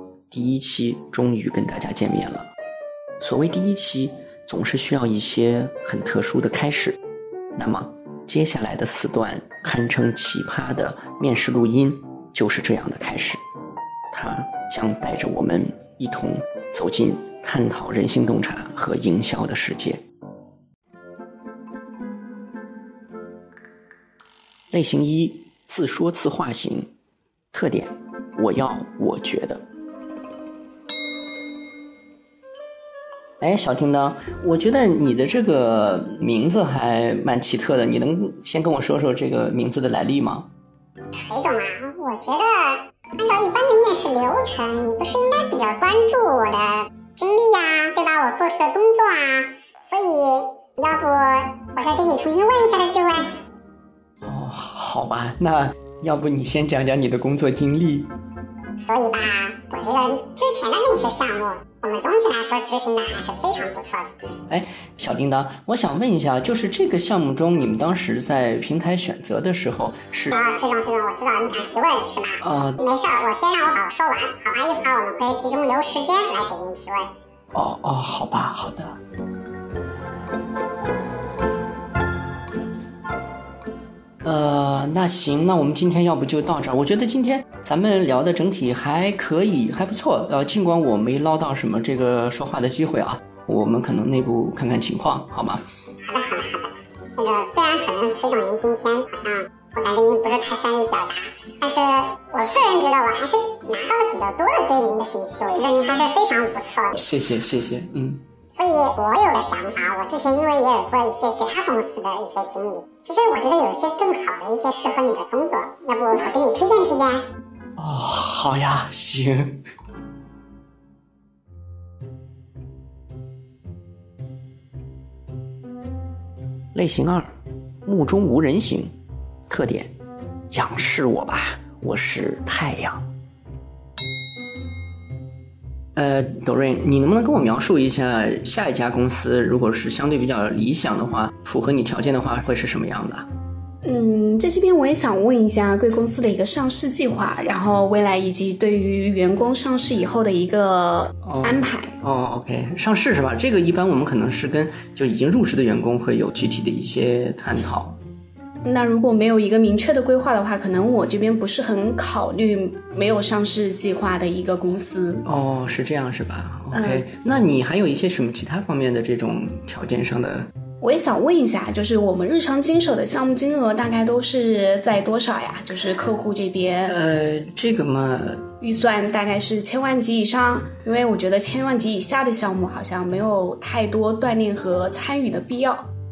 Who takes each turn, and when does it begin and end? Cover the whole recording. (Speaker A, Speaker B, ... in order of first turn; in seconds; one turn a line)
Speaker A: 0.3-2.5
Speaker A: 3.2-7.0
Speaker A: 7.5-13.4
Speaker A: 14.1-20.0
Speaker A: 24.7-26.9
Speaker A: 27.5-29.6
Speaker A: 33.4-40.5
Speaker B: 41.1-53.3
Speaker A: 54.2-58.1
Speaker B: 58.8-64.1
Speaker A: 64.5-70.4
Speaker B: 70.3-77.1
Speaker A: 72.4-72.8
Speaker A: 77.5-79.0
Speaker A: 84.2-95.6
Speaker B: 96.1-107.0
Speaker A: 107.0-108.2
Speaker B: 108.5-117.2
Speaker A: 117.8-119.6
Speaker A: 126.7-128.9
Speaker A: 129.5-129.9
Speaker A: 130.5-133.1
Speaker A: 135.9-143.3
Speaker C: 143.8-151.9
Speaker A: 151.2-158.0
Speaker C: 158.6-165.2
Speaker A: 165.2-170.5
Speaker C: 166.8-167.0
Speaker C: 170.8-176.9
Speaker A: 176.9-178.5
Speaker C: 178.6-185.9